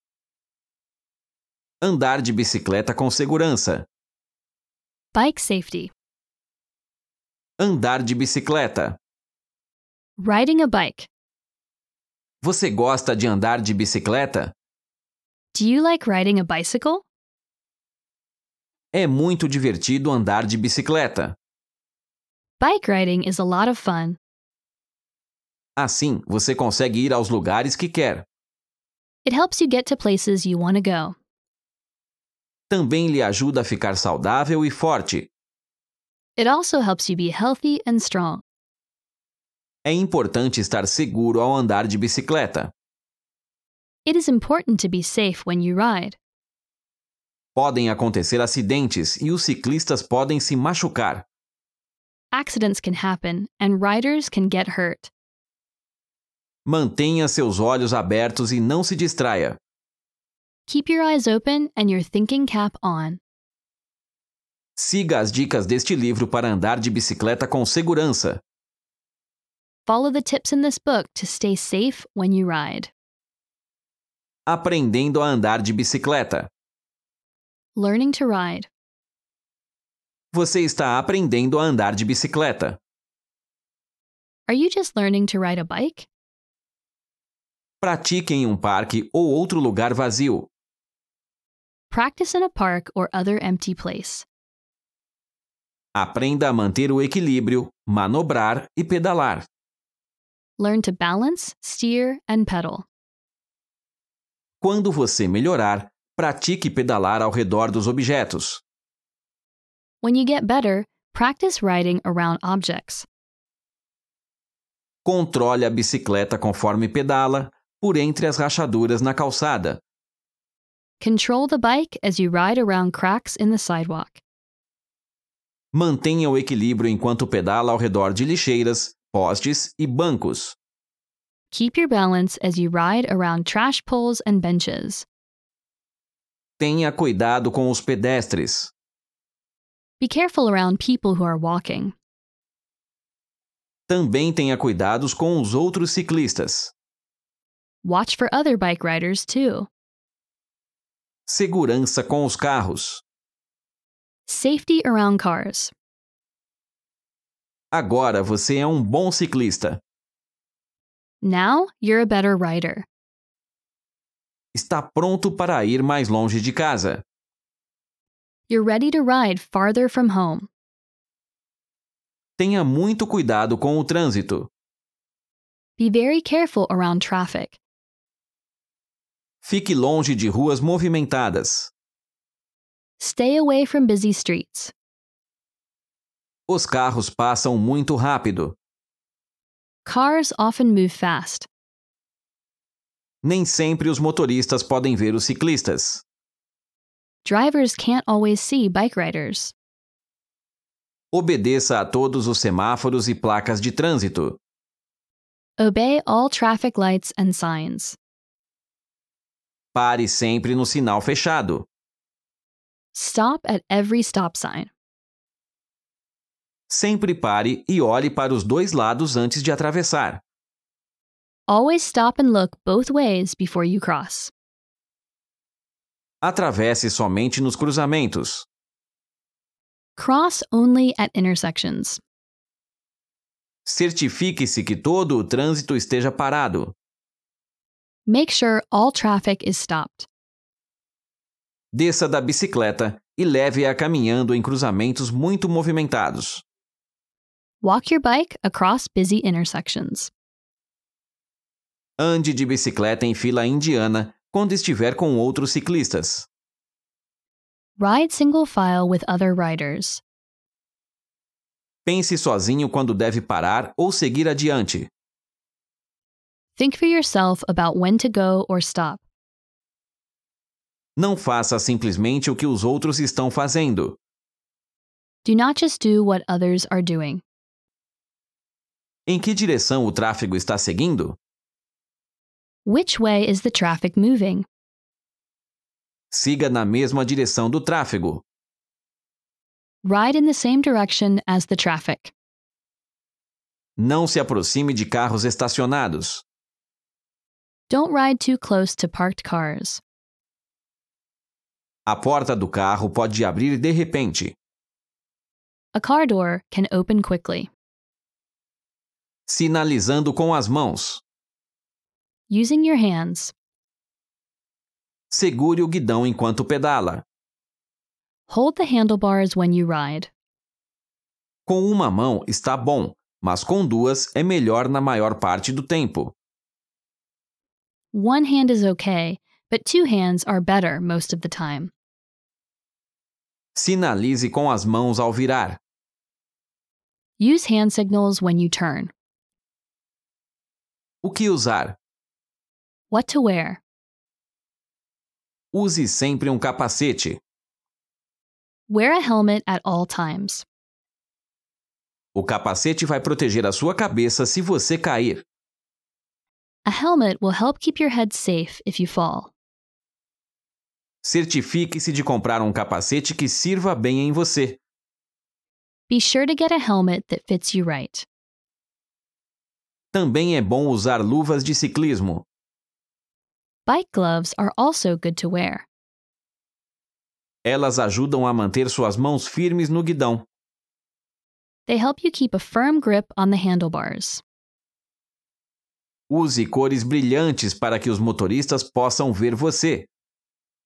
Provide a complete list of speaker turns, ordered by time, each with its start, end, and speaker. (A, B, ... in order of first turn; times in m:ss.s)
0:01.8-0:03.9 A
0:05.1-0:05.9 B
0:07.6-0:09.0 A
0:10.2-0:11.1 B
0:12.4-0:14.5 A
0:15.5-0:17.0 B
0:18.9-0:21.4 A
0:22.6-0:24.2 B
0:25.8-0:28.3 A
0:29.2-0:31.2 B
0:32.7-0:35.3 A
0:36.4-0:38.4 B
0:39.8-0:42.7 A
0:44.1-0:46.2 B
0:47.6-0:51.3 A
0:52.3-0:55.1 B
0:56.7-0:59.6 A
1:00.7-1:03.2 B
1:04.8-1:08.4 A
1:09.9-1:12.9 B
1:14.5-1:16.5 A
1:17.8-1:18.7 B
1:20.3-1:22.8 A
1:24.5-1:26.1 B
1:27.8-1:30.5 A
1:31.9-1:34.3 B
1:36.0-1:39.5 A
1:40.6-1:42.9 B
1:44.6-1:48.6 A
1:50.0-1:53.1 B
1:55.0-1:59.8 A
2:01.0-2:04.2 B
2:05.7-2:10.6 A
2:11.5-2:15.1 B
2:16.6-2:18.7 A
2:20.0-2:22.0 B
2:23.9-2:26.7 A
2:27.8-2:29.7 B
2:31.3-2:33.0 A
2:34.3-2:35.7 B
2:37.7-2:39.8 A
2:41.2-2:42.9 B
2:44.5-2:47.0 A
2:48.5-2:50.5 B
2:52.4-2:54.5 A
2:55.8-2:57.6 B
2:59.4-3:01.7 A
3:03.0-3:04.7 B
3:06.5-3:08.6 A
3:09.8-3:11.5 B
3:13.2-3:16.0 A
3:17.2-3:19.6 B
3:21.1-3:24.4 A
3:25.6-3:28.0 B
3:29.7-3:31.7 A
3:32.9-3:34.7 B
3:36.7-3:40.2 A
3:41.5-3:44.3 B
3:46.2-3:48.5 A
3:50.0-3:52.0 B
3:53.7-3:56.8 A
3:58.1-4:00.1 B
4:01.7-4:06.4 A
4:07.6-4:10.1 B
4:12.0-4:16.3 A
4:17.8-4:20.0 B
4:21.9-4:24.9 A
4:26.6-4:29.0 B
4:31.0-4:34.0 A
4:35.2-4:37.2 B
4:39.1-4:41.2 A
4:42.6-4:44.5 B
4:46.1-4:48.2 A
4:49.8-4:52.1 B
4:53.8-4:56.2 A
4:57.7-4:59.8 B
5:01.9-5:04.4 A
5:05.8-5:07.5 B
5:09.3-5:11.0 A
5:12.3-5:13.3 B
5:15.1-5:17.0 A
5:18.3-5:20.1 B
5:21.5-5:26.2 A
5:27.9-5:31.7 B
5:33.6-5:35.6 A
5:37.2-5:38.9 B
5:41.0-5:41.8 A
5:42.9-5:43.6 B
5:45.5-5:47.2 A
5:48.7-5:50.4 B
5:52.2-5:55.3 A
5:56.6-5:59.3 B
6:01.0-6:04.6 A
6:05.9-6:08.1 B
6:09.9-6:12.3 A
6:13.7-6:15.7 B
6:17.4-6:20.3 A
6:21.7-6:24.2 B
6:26.1-6:29.9 A